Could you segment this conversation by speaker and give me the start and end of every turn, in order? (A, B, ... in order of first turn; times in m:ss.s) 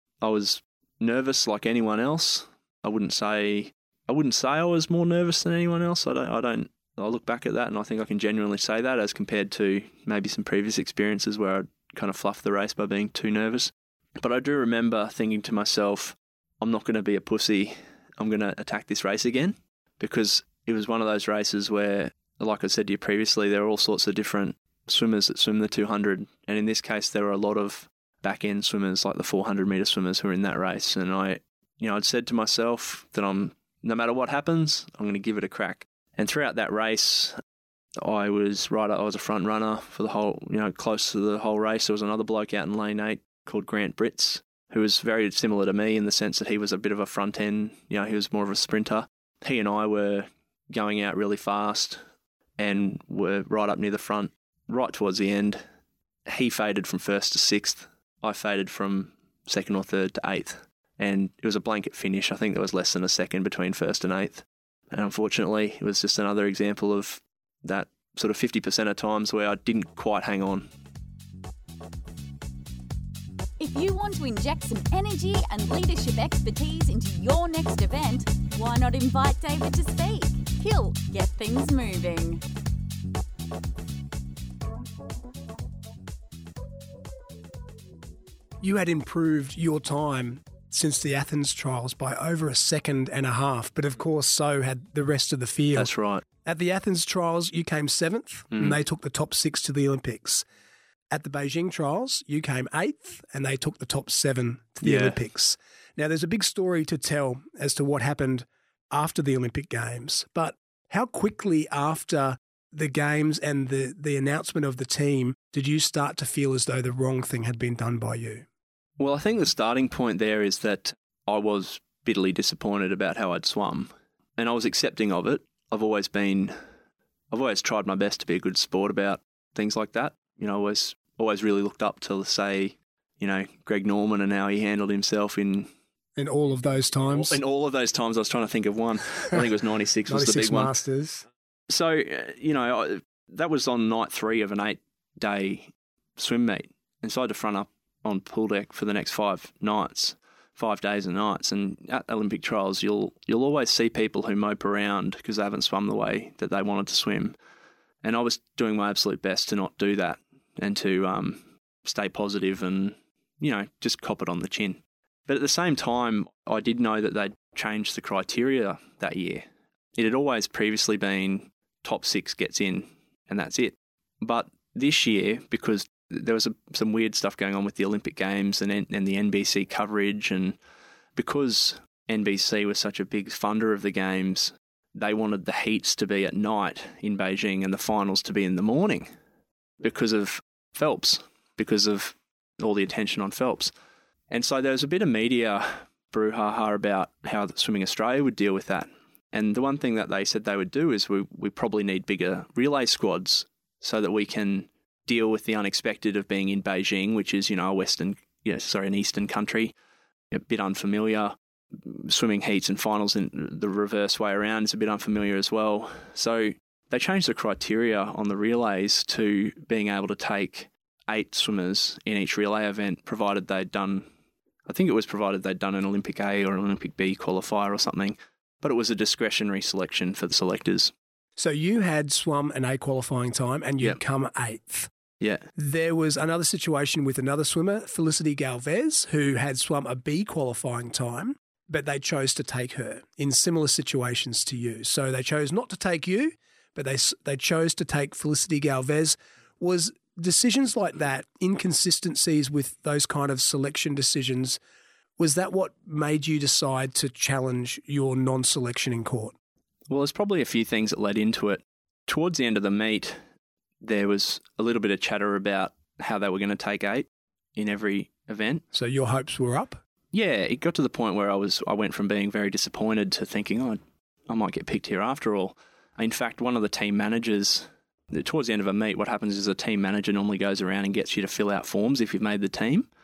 0:00.2-0:37.4 A
0:38.0-0:52.0 A
0:52.6-0:55.6 A
0:56.2-1:10.7 A
1:13.6-1:22.4 B
1:28.6-1:35.9 C
1:35.7-1:36.2 A
1:36.4-1:40.5 C
1:38.5-1:38.8 A
1:41.1-1:58.4 C
1:44.8-1:45.2 A
1:59.0-2:06.6 A
2:07.3-2:15.7 A
2:16.2-2:17.4 C
2:17.1-2:20.7 A
2:20.1-2:21.2 C
2:21.7-2:37.4 A
2:38.0-3:00.6 A
3:01.2-3:09.1 A
3:09.8-3:13.7 A
3:14.3-3:29.7 A
3:30.3-3:44.1 A
3:44.6-3:50.9 A
3:51.4-3:54.9 C
3:55.2-3:55.5 A
3:55.6-4:14.6 C
4:15.2-4:19.3 C
4:19.9-4:23.2 A
4:23.8-4:28.6 A
4:28.7-4:29.8 C
4:30.1-4:42.9 A